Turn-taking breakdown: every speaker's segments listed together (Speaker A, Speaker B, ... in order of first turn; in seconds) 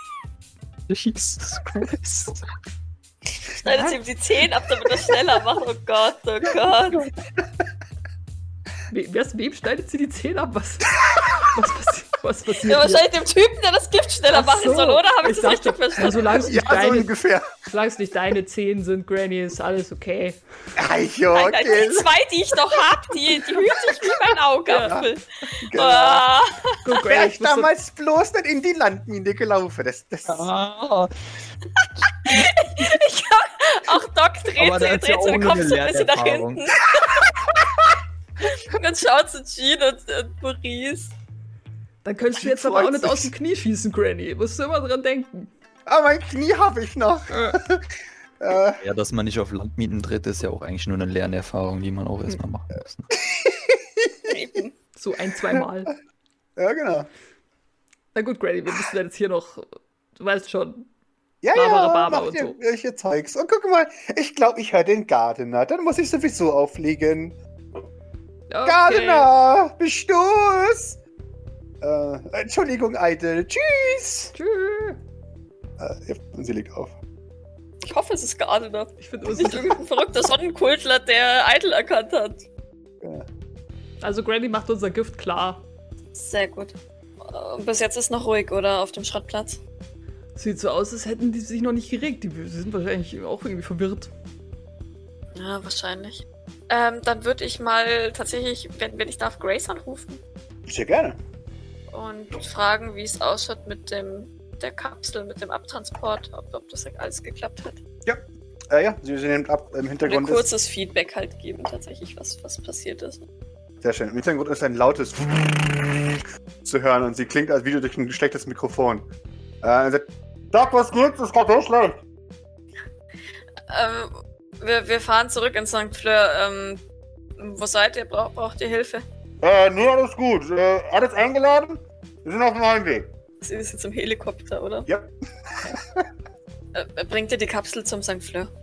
Speaker A: 0.9-2.4, 30.2-31.1, 31.8-32.5, 34.6-36.7, 48.8-53.1
Speaker B: 3.6-7.0, 12.6-16.5, 21.3-26.8, 32.2-37.4, 38.4-41.1, 54.3-54.7, 77.8-82.5, 86.1-89.6, 95.3-100.2, 101.9-107.8, 110.0-113.2, 123.7-126.8, 127.4-129.0, 133.4-134.9, 136.7-138.5
Speaker C: 3.6-4.0, 8.9-13.1, 14.3-17.1, 17.6-20.4, 24.7-25.1, 26.8-27.7, 42.0-45.5, 47.3-47.6, 54.9-55.9, 58.1-60.9, 61.5-62.6, 68.5-69.3, 74.3-75.0, 79.0-79.8, 84.0-85.6, 90.3-94.1
Speaker D: 11.1-11.4, 16.4-17.5, 20.7-22.1, 25.6-26.2, 27.0-30.5, 37.4-37.9, 42.3-43.3, 45.9-48.8, 53.2-54.4, 56.5-57.1, 61.4-67.8, 68.6-71.0, 71.8-74.3, 75.8-77.0, 83.0-83.3, 100.7-101.2, 108.0-110.5, 113.8-119.1, 119.6-122.0, 129.4-133.1, 134.9-136.1